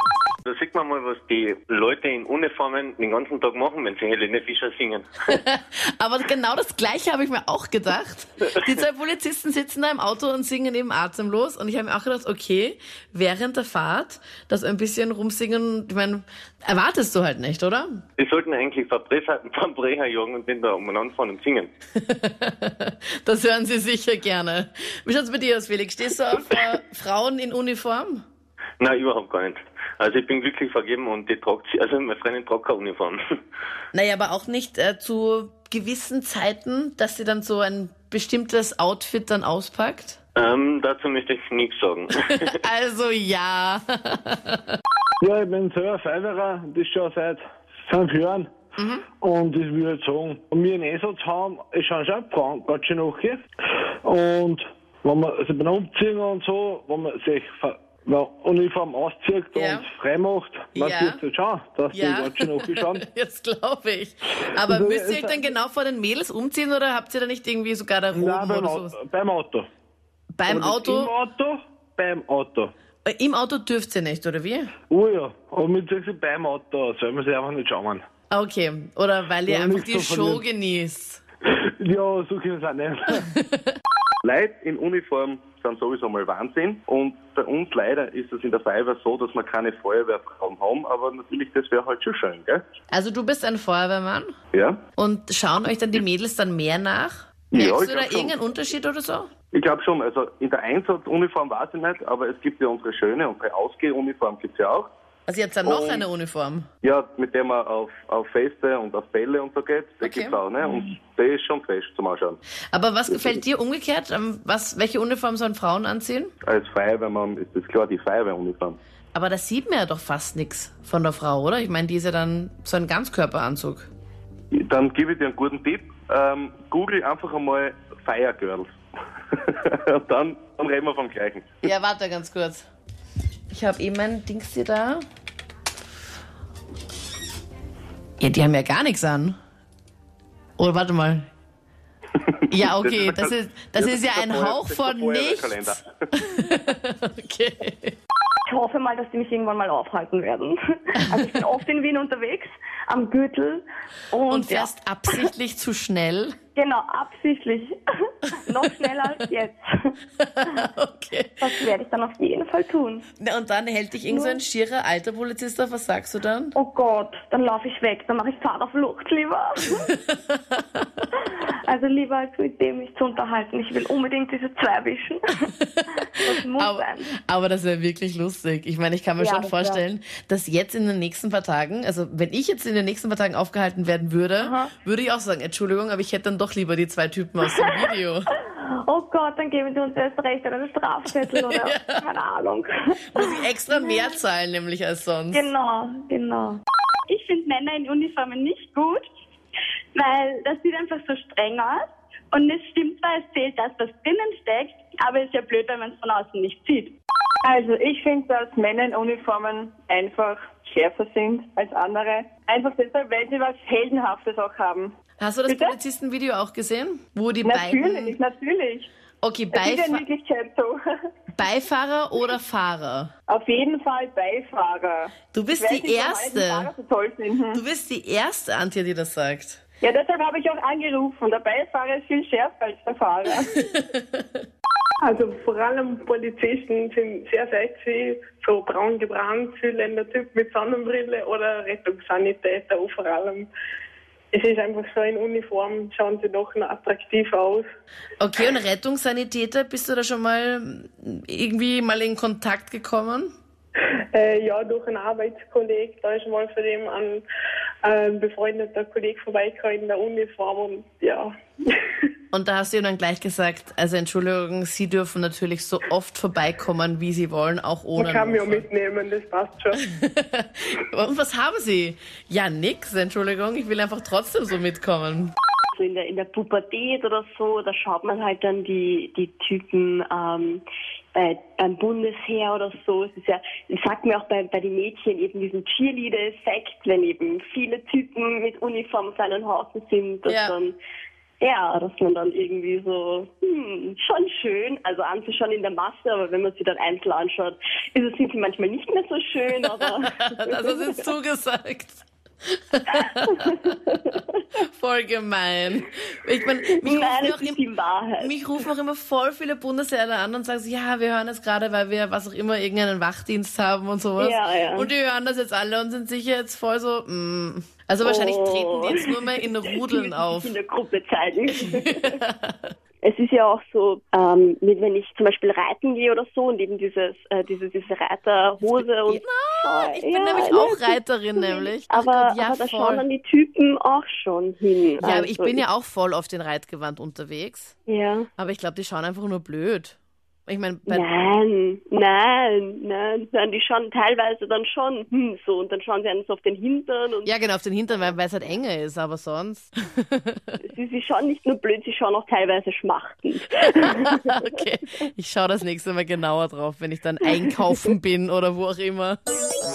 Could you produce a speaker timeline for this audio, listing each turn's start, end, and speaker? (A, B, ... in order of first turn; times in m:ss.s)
0:00.4-0:05.0 A
0:05.3-0:18.0 B
0:18.2-0:21.7 A
0:22.0-0:28.2 B
0:28.8-0:33.2 A
0:33.9-0:40.2 B
0:40.4-0:42.6 A
0:42.6-0:44.8 B
0:45.2-0:48.5 C
0:48.8-0:49.0 B
0:49.2-0:53.4 C
0:54.0-1:03.0 C
0:59.5-0:59.9 B
1:00.7-1:01.2 B
1:01.9-1:08.9 B
1:04.6-1:05.5 C
1:08.1-1:09.7 C
1:10.3-1:11.1 B
1:10.5-1:12.7 C
1:13.0-1:14.7 B
1:14.9-1:18.0 C
1:18.3-1:21.2 B
1:19.5-1:20.4 C
1:21.5-1:23.2 C
1:24.2-1:32.6 D
1:32.9-1:34.3 B
1:34.5-1:34.8 D
1:35.0-1:39.3 B
1:37.5-1:38.4 D
1:39.5-1:44.9 D
1:45.3-1:46.7 B
1:45.6-1:46.0 D
1:46.8-1:52.4 D
1:50.0-1:50.4 B
1:52.7-1:56.3 B
1:56.4-1:58.8 D
1:59.1-2:03.9 B
2:04.5-2:08.7 D
2:09.4-2:11.5 D
2:11.6-2:12.6 B
2:13.5-2:15.0 B
2:18.2-2:19.4 B
2:20.6-2:21.2 B
2:22.5-2:28.0 B
2:22.6-2:25.9 D
2:28.4-2:35.2 E
2:34.3-2:36.3 B
2:36.5-2:37.8 E
2:38.4-2:39.9 E
2:40.2-2:41.4 B
2:41.4-2:43.0 E
2:43.2-2:46.5 B
2:44.1-2:44.4 E
2:46.5-2:49.9 E
2:51.6-2:55.5 E
2:56.0-2:57.1 E
2:56.6-3:08.3 B
2:59.2-2:59.8 E
3:04.4-3:04.7 E
3:08.4-3:14.0 E
3:11.3-3:11.9 B
3:13.1-3:15.5 B
3:15.3-3:16.6 E
3:17.1-3:19.0 F
3:19.9-3:26.9 F
3:27.4-3:34.9 G
3:35.2-3:38.2 B
3:35.5-3:35.8 G
3:37.4-3:38.9 G
3:39.2-3:40.0 B
3:39.5-3:40.8 G
3:41.3-3:43.1 B
3:43.3-3:47.6 G
3:45.3-3:46.7 B
3:47.5-3:49.6 B
3:49.8-3:53.7 G
3:53.7-3:54.2 B
3:55.0-4:03.5 H
4:04.3-4:07.6 H
4:08.2-4:13.3 B
4:14.1-4:17.2 H
4:17.8-4:21.3 H
4:22.3-4:28.7 B
4:28.0-4:29.8 H
4:29.8-4:35.3 B
4:35.7-4:50.8 I
4:50.3-4:50.5 B
4:51.4-5:01.0 I
5:00.3-5:03.6 B
5:03.3-5:04.2 I
5:04.7-5:07.6 B
5:06.6-5:08.4 I
5:08.2-5:20.5 B
5:14.2-5:14.9 I
5:18.0-5:22.2 I
5:22.0-5:22.7 B
5:23.0-5:35.6 I
5:28.7-5:33.0 B
5:35.0-5:37.7 B
5:37.9-5:38.3 I
5:38.4-5:41.1 B
5:40.9-5:47.3 I
5:47.2-5:50.5 B
5:50.6-5:54.6 I
5:54.4-5:59.2 B